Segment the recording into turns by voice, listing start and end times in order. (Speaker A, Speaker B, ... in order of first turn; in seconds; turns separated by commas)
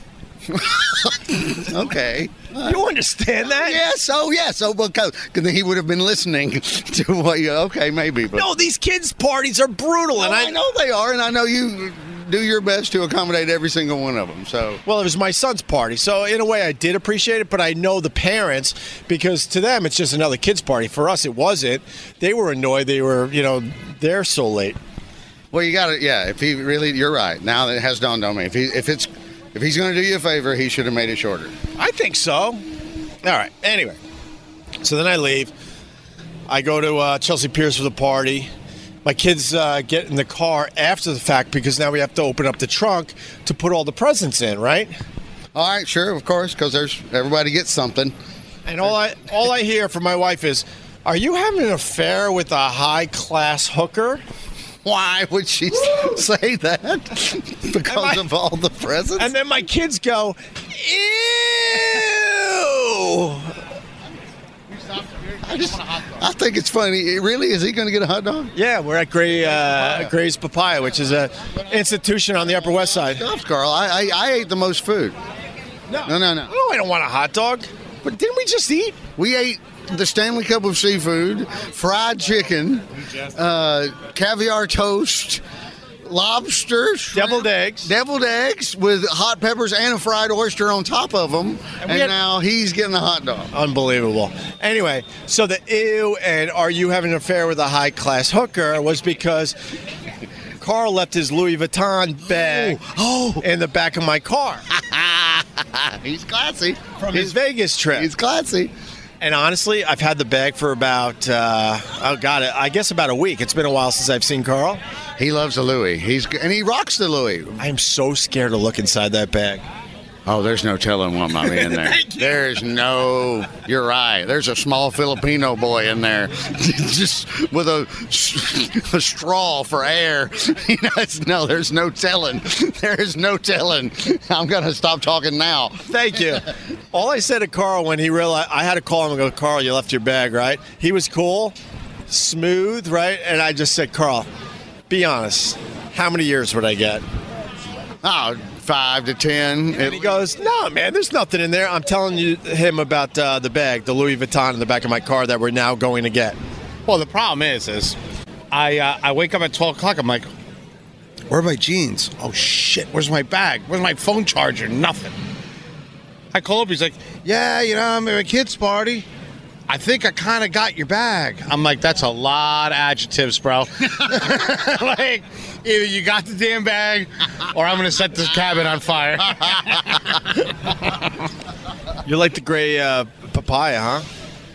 Speaker A: 0.5-2.8, Speaker B: 2.6-3.8, Speaker A: 3.4-8.6, Speaker B: 8.3-10.6, Speaker A: 10.2-14.8, Speaker B: 14.9-24.8, Speaker A: 25.5-31.6, Speaker B: 31.8-32.6, Speaker B: 33.2-34.0, Speaker B: 34.8-35.5, Speaker B: 36.5-38.5, Speaker B: 39.0-44.9, Speaker A: 45.5-48.1, Speaker B: 48.7-54.2, Speaker A: 54.8-59.3, Speaker B: 57.9-58.3, Speaker B: 59.2-63.5, Speaker C: 64.7-66.2, Speaker A: 65.4-68.5, Speaker B: 68.5-73.2, Speaker A: 73.0-75.2, Speaker B: 75.9-79.0, Speaker A: 76.0-76.5, Speaker A: 79.2-85.4, Speaker A: 86.0-93.5, Speaker B: 87.1-87.9, Speaker B: 91.8-92.2, Speaker B: 93.5-99.6, Speaker B: 100.6-102.8, Speaker A: 102.3-103.5, Speaker B: 103.4-104.7, Speaker A: 104.7-107.4, Speaker B: 107.0-108.1, Speaker A: 107.9-108.7, Speaker B: 109.2-114.8, Speaker A: 115.2-117.6, Speaker B: 117.6-119.6, Speaker A: 120.3-136.5, Speaker B: 121.4-122.4, Speaker B: 135.9-141.6, Speaker B: 142.1-144.3, Speaker B: 144.9-147.0, Speaker A: 148.0-150.3, Speaker B: 149.7-156.4, Speaker C: 156.9-158.0, Speaker C: 158.5-160.3, Speaker C: 161.3-165.2, Speaker C: 166.3-169.1, Speaker C: 169.7-180.5, Speaker B: 182.1-184.1